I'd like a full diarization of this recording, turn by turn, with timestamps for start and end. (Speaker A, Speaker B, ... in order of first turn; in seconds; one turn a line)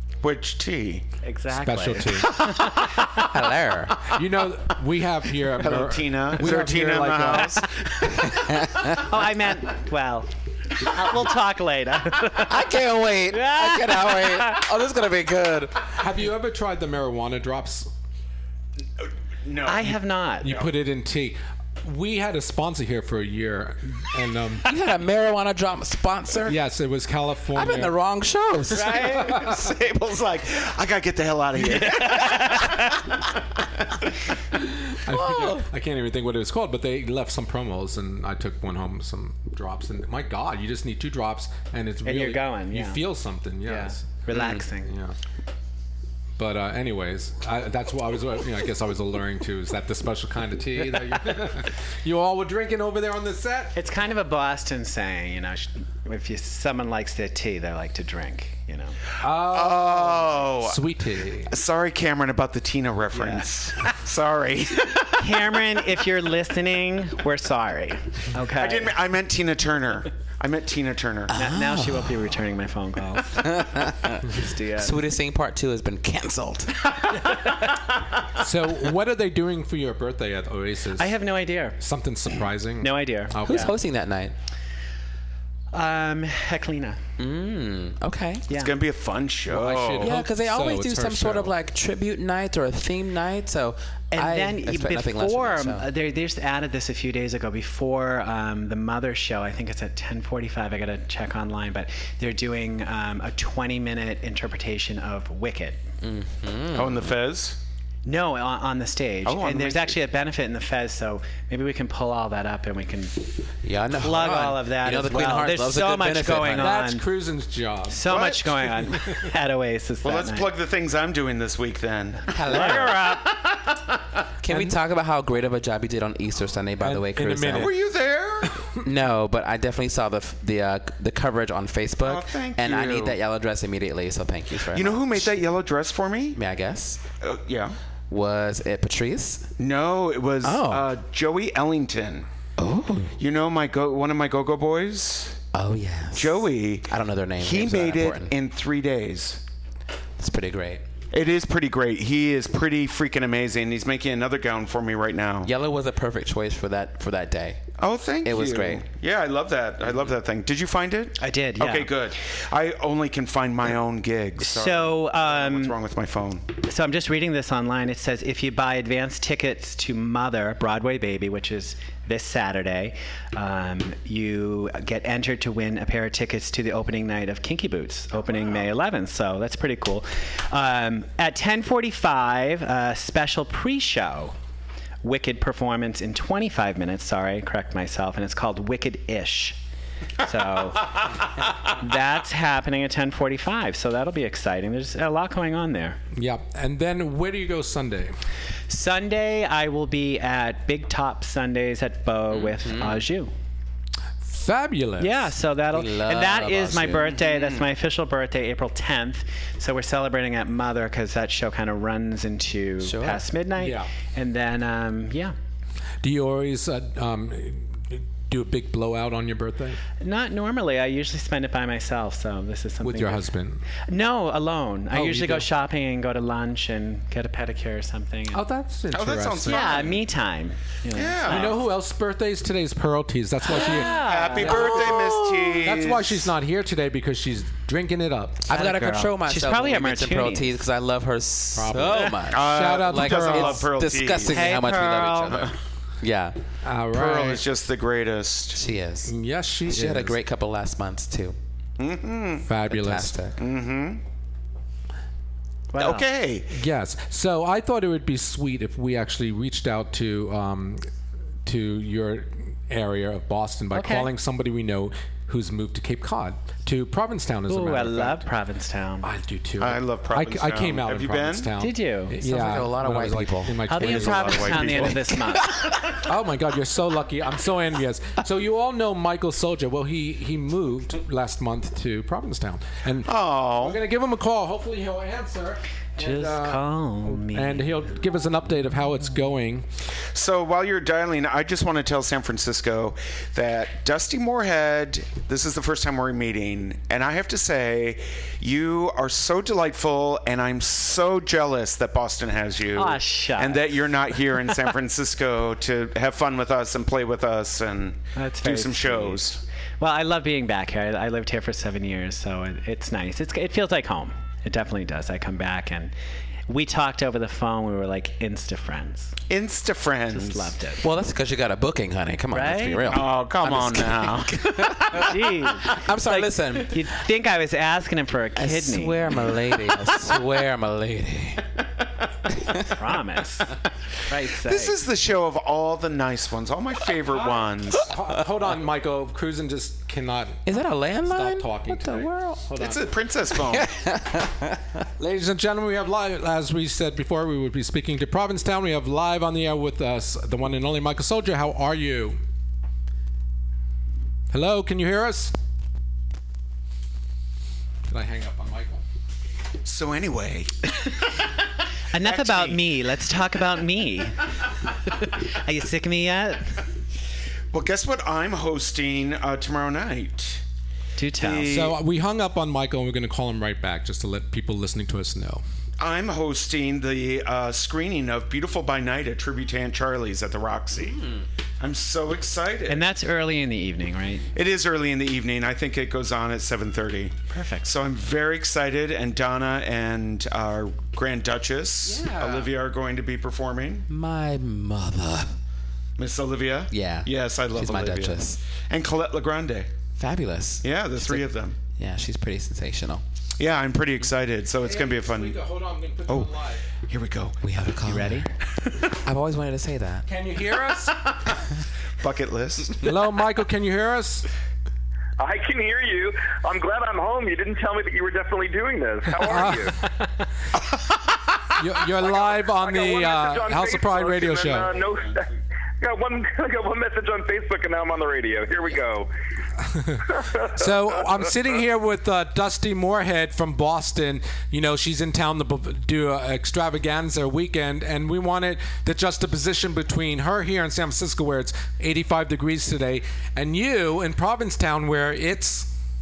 Speaker A: 0.2-1.1
Speaker B: 1.2-3.3
Speaker C: 1.6-2.4
Speaker D: 2.4-4.1
Speaker C: 4.1-7.6
Speaker A: 5.5-8.3
Speaker D: 8.4-9.0
Speaker B: 8.9-12.7
Speaker D: 12.3-16.0
Speaker B: 13.3-14.6
Speaker C: 16.0-17.9
Speaker A: 19.0-20.7
Speaker B: 19.6-20.5
Speaker C: 20.4-24.6
Speaker D: 24.6-26.6
Speaker C: 26.4-27.9
Speaker D: 27.5-29.0
Speaker B: 28.7-29.5
Speaker C: 28.8-29.7
Speaker A: 29.0-33.1
Speaker B: 32.1-32.5
Speaker C: 34.9-44.2
Speaker D: 35.1-35.7
Speaker B: 42.0-43.0
Speaker B: 43.6-44.9
Speaker D: 44.3-44.6
Speaker C: 44.8-45.1
Speaker C: 46.4-53.7
Speaker B: 53.7-59.0
Speaker C: 59.2-61.5
Speaker A: 59.2-60.8
Speaker A: 61.5-65.6
Speaker B: 63.1-63.5
Speaker B: 65.2-68.9
Speaker A: 68.5-71.3
Speaker D: 71.3-72.2
Speaker B: 71.3-73.6
Speaker D: 73.4-76.9
Speaker B: 74.2-75.0
Speaker C: 78.3-81.1
Speaker B: 81.0-81.8
Speaker C: 81.8-83.7
Speaker B: 82.8-83.7
Speaker D: 83.4-84.3
Speaker B: 85.7-87.0
Speaker D: 87.2-88.5
Speaker A: 88.5-90.2
Speaker C: 89.5-91.5
Speaker D: 90.0-95.9
Speaker B: 94.1-105.8
Speaker D: 106.0-107.0
Speaker A: 106.7-107.6
Speaker B: 108.0-113.2
Speaker A: 109.2-110.0
Speaker D: 113.6-116.8
Speaker B: 114.0-117.1
Speaker C: 116.6-118.3
Speaker B: 117.9-120.5
Speaker A: 118.0-118.7
Speaker A: 120.0-123.9
Speaker D: 122.3-123.1
Speaker B: 122.4-123.3
Speaker D: 124.4-127.7
Speaker C: 126.8-127.8
Speaker A: 127.5-128.5
Speaker D: 128.8-135.3
Speaker A: 132.0-133.2
Speaker A: 134.7-136.4
Speaker D: 136.3-137.0
Speaker A: 137.2-137.7
Speaker D: 138.1-139.5
Speaker A: 139.6-142.3
Speaker D: 140.4-140.9
Speaker D: 142.6-143.1
Speaker A: 143.2-145.4
Speaker D: 145.5-148.3
Speaker A: 146.1-149.4
Speaker D: 150.2-150.8
Speaker A: 151.1-155.5
Speaker D: 155.4-157.6
Speaker A: 157.8-166.5
Speaker D: 158.2-158.8
Speaker B: 161.2-161.9
Speaker B: 164.4-165.8
Speaker B: 166.6-184.3
Speaker B: 185.0-189.6
Speaker B: 190.2-196.0
Speaker C: 196.1-198.1
Speaker B: 198.7-203.3
Speaker D: 202.3-203.0
Speaker C: 204.2-205.3
Speaker B: 205.0-215.3
Speaker D: 205.7-207.5
Speaker D: 212.8-213.2
Speaker C: 213.6-213.9
Speaker C: 216.0-219.8
Speaker B: 220.0-223.2
Speaker C: 222.8-223.6
Speaker B: 223.9-228.4
Speaker C: 224.9-225.5
Speaker C: 228.3-229.8
Speaker A: 228.9-230.0
Speaker B: 229.5-231.6
Speaker A: 230.9-231.6
Speaker C: 231.3-234.9
Speaker D: 233.5-235.6
Speaker B: 233.5-235.2
Speaker A: 233.8-236.3
Speaker C: 235.6-238.4
Speaker D: 238.4-246.4
Speaker B: 238.5-240.5
Speaker C: 241.5-243.7
Speaker A: 242.3-244.6
Speaker B: 244.3-245.5
Speaker C: 246.6-247.4
Speaker A: 246.9-248.6
Speaker D: 248.5-249.1
Speaker C: 249.1-250.2
Speaker D: 249.7-251.4
Speaker A: 251.8-252.5
Speaker C: 252.4-253.2
Speaker D: 252.7-253.3
Speaker A: 253.4-254.0
Speaker B: 255.7-256.1
Speaker A: 255.8-256.5
Speaker C: 256.5-260.8
Speaker C: 261.4-268.2
Speaker B: 263.7-264.1
Speaker B: 267.5-269.1
Speaker C: 269.0-275.0
Speaker A: 269.6-271.5
Speaker B: 271.6-272.1
Speaker D: 272.2-273.7
Speaker B: 273.7-275.7
Speaker A: 273.8-275.0
Speaker C: 276.0-289.6
Speaker A: 283.0-283.8
Speaker B: 286.0-287.6
Speaker A: 290.1-309.4
Speaker B: 302.7-304.7
Speaker B: 308.1-309.2
Speaker B: 309.8-315.9
Speaker B: 316.5-319.2
Speaker A: 319.3-320.5
Speaker B: 320.1-320.8
Speaker D: 320.8-326.8
Speaker B: 322.3-323.0
Speaker A: 322.9-325.0
Speaker B: 324.9-329.2
Speaker D: 328.4-331.4
Speaker B: 332.7-333.5
Speaker B: 334.1-334.8
Speaker A: 334.4-337.9
Speaker C: 337.1-342.8
Speaker D: 340.4-342.5
Speaker A: 342.6-343.8
Speaker D: 343.3-344.6
Speaker C: 345.0-352.2
Speaker C: 354.3-355.3
Speaker C: 357.9-358.8
Speaker A: 359.6-360.7
Speaker B: 361.9-364.2
Speaker A: 361.9-362.7
Speaker B: 365.0-366.6
Speaker A: 367.5-370.4
Speaker B: 371.0-371.6
Speaker A: 371.2-371.8
Speaker C: 371.5-375.4
Speaker A: 375.8-381.0
Speaker A: 381.6-382.8
Speaker B: 382.7-384.3
Speaker A: 384.3-393.9
Speaker B: 387.3-387.7
Speaker D: 392.1-392.4
Speaker D: 393.9-395.4
Speaker A: 396.0-399.7
Speaker D: 396.7-398.4
Speaker D: 400.0-403.0
Speaker A: 400.6-401.6
Speaker A: 403.4-405.4
Speaker C: 404.6-406.7
Speaker A: 406.8-407.4
Speaker D: 407.4-408.3
Speaker D: 408.9-410.1
Speaker C: 410.1-411.0
Speaker A: 412.0-412.9
Speaker C: 412.8-414.3
Speaker E: 415.2-419.8
Speaker C: 419.1-419.7
Speaker C: 421.6-424.7
Speaker E: 422.0-429.1
Speaker C: 429.7-445.7
Speaker E: 430.1-430.6